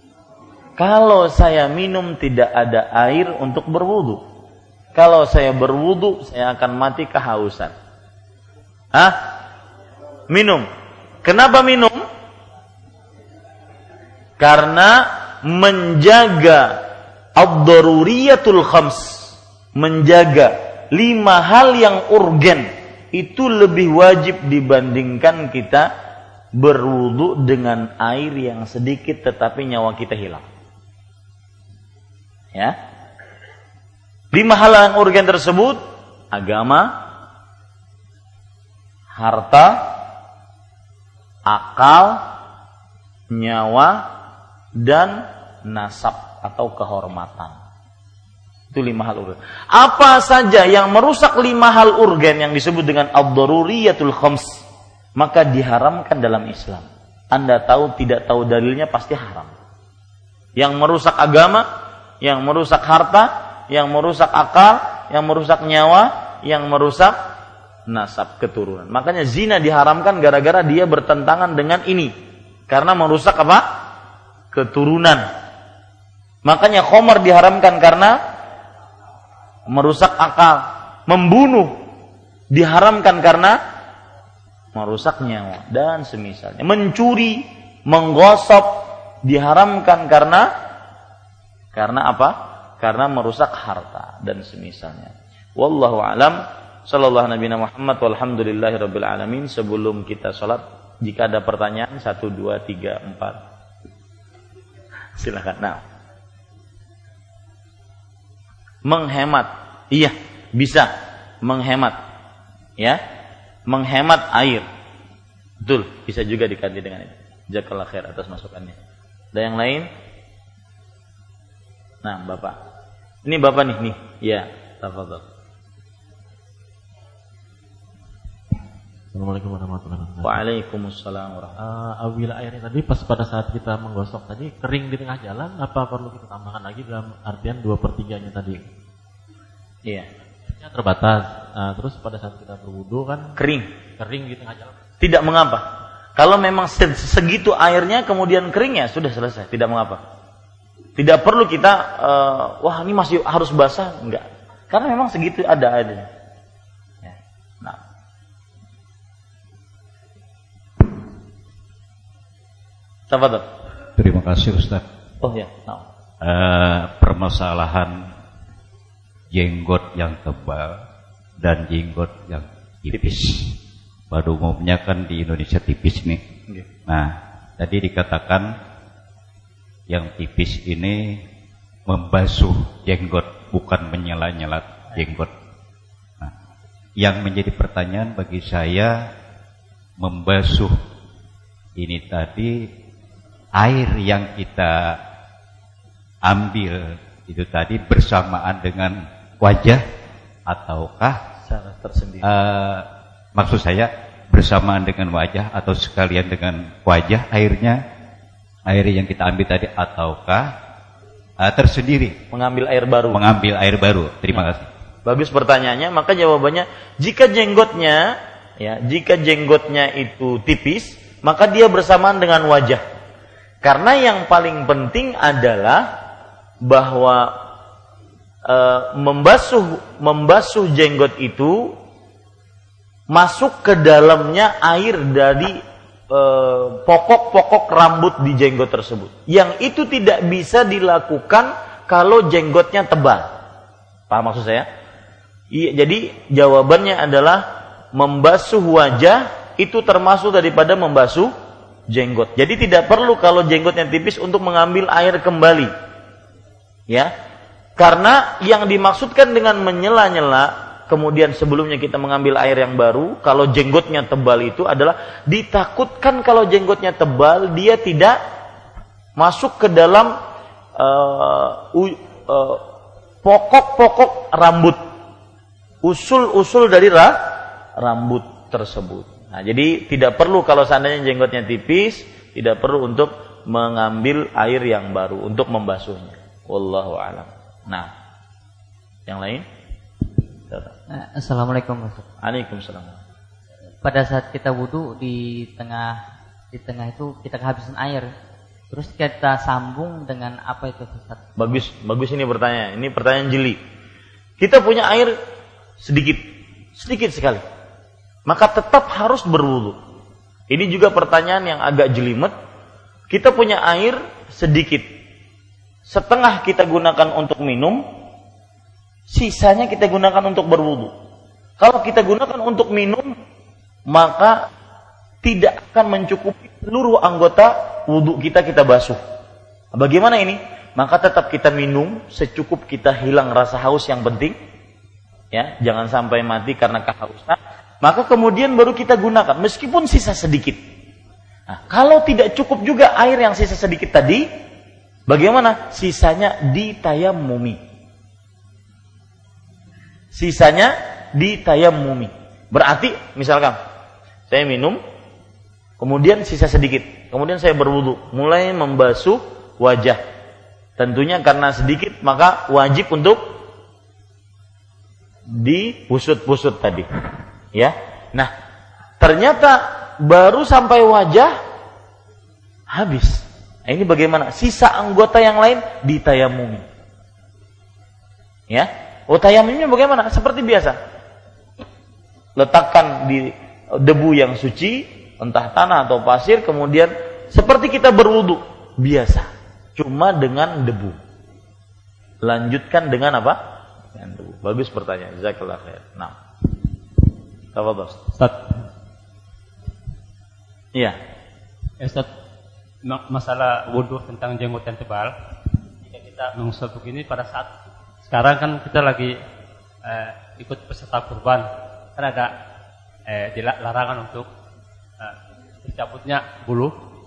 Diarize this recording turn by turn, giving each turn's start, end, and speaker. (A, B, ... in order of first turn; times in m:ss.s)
0:00.8-0:04.2 A
0:04.9-0:07.7 A
0:08.9-0:09.2 A
0:10.3-0:10.7 A
0:11.2-0:12.0 A
0:14.4-0:16.8 A
0:17.4-0:25.9 A
0:26.6-0:30.4 A
0:34.3-0:35.8 A
0:36.3-0:36.9 A
0:39.1-0:39.8 A
0:41.5-0:42.2 A
0:43.3-0:44.0 A
0:44.8-0:47.6 A
0:48.7-0:54.6 A
0:55.2-0:59.5 A
1:00.6-1:01.6 A
1:02.2-1:07.2 A
1:07.9-1:12.1 A
1:12.7-1:13.6 A
1:14.5-1:15.2 A
1:16.4-1:18.2 A
1:19.7-1:21.7 A
1:22.5-1:23.6 A
1:24.7-1:30.5 A
1:31.7-1:43.4 A
1:45.2-1:45.8 A
1:48.8-1:52.0 A
1:53.7-1:54.6 A
1:55.6-1:58.8 A
1:59.3-1:59.9 A
2:02.0-2:02.6 A
2:03.2-2:05.2 A
2:09.1-2:10.4 B
2:10.2-2:11.6 A
2:11.6-2:18.6 B
2:20.4-2:23.4 B
2:23.4-2:23.7 A
2:24.0-2:24.8 B
2:25.0-2:25.6 A
2:26.2-2:30.0 A
2:31.0-2:36.1 A
2:37.0-2:37.8 A
2:43.1-2:43.5 A
2:44.0-2:44.8 C
2:45.2-2:45.8 A
2:46.2-2:48.1 C
2:49.3-2:50.8 C
2:51.4-2:53.6 C
2:54.1-2:56.2 C
2:56.9-2:58.5 C
2:59.9-3:01.2 C
3:01.8-3:05.3 C
3:07.0-3:09.1 C
3:10.0-3:10.8 C
3:11.8-3:12.7 C
3:13.5-3:15.0 C
3:16.2-3:19.8 C
3:20.5-3:21.2 C
3:21.4-3:22.3 A
3:22.2-3:27.8 C
3:28.7-3:30.5 C
3:31.4-3:32.2 C
3:32.3-3:33.2 A
3:33.1-3:34.7 C
3:35.0-3:42.8 A
3:43.6-3:45.9 A
3:46.6-3:47.3 A
3:48.4-3:51.7 A
3:53.1-3:55.6 A
3:56.1-4:03.3 A
4:04.1-4:04.7 A
4:05.5-4:11.3 A
4:11.9-4:15.7 A
4:17.8-4:28.2 A
4:29.2-4:30.1 A
4:30.8-4:32.6 A
4:33.2-4:34.8 A
4:35.8-4:47.9 A
4:49.1-4:49.4 A
4:50.9-4:52.0 D
4:52.2-4:53.0 A
4:53.8-4:56.0 D
4:56.5-4:58.1 D
4:58.7-5:01.2 D
5:01.4-5:03.6 A
5:04.4-5:05.1 A
5:05.8-5:06.2 A
5:06.8-5:07.4 A
5:08.3-5:09.8 A
5:10.5-5:12.3 A
5:13.1-5:14.9 A
5:15.9-5:17.8 A
5:19.1-5:20.9 A
5:21.6-5:23.1 A
5:23.9-5:24.4 A
5:25.2-5:29.0 A
5:29.8-5:34.4 A
5:35.3-5:40.6 A
5:41.5-5:44.3 A
5:45.1-5:47.6 A
5:50.1-5:53.6 A
5:54.3-5:54.8 A
5:55.8-6:00.0 A
6:00.8-6:03.2 A
6:05.3-6:06.9 A
6:07.5-6:08.3 A
6:09.0-6:11.4 A
6:12.7-6:16.6 A
6:18.5-6:20.8 A
6:22.4-6:31.0 A
6:32.2-6:33.4 A
6:33.9-6:36.1 A
6:37.5-6:38.0 A
6:38.2-6:38.6 E
6:41.8-6:42.1 E
6:42.8-6:45.1 E
6:45.8-6:47.5 E
6:48.0-6:49.2 E
6:49.8-6:52.3 E
6:53.1-6:54.3 E
6:55.0-6:56.8 E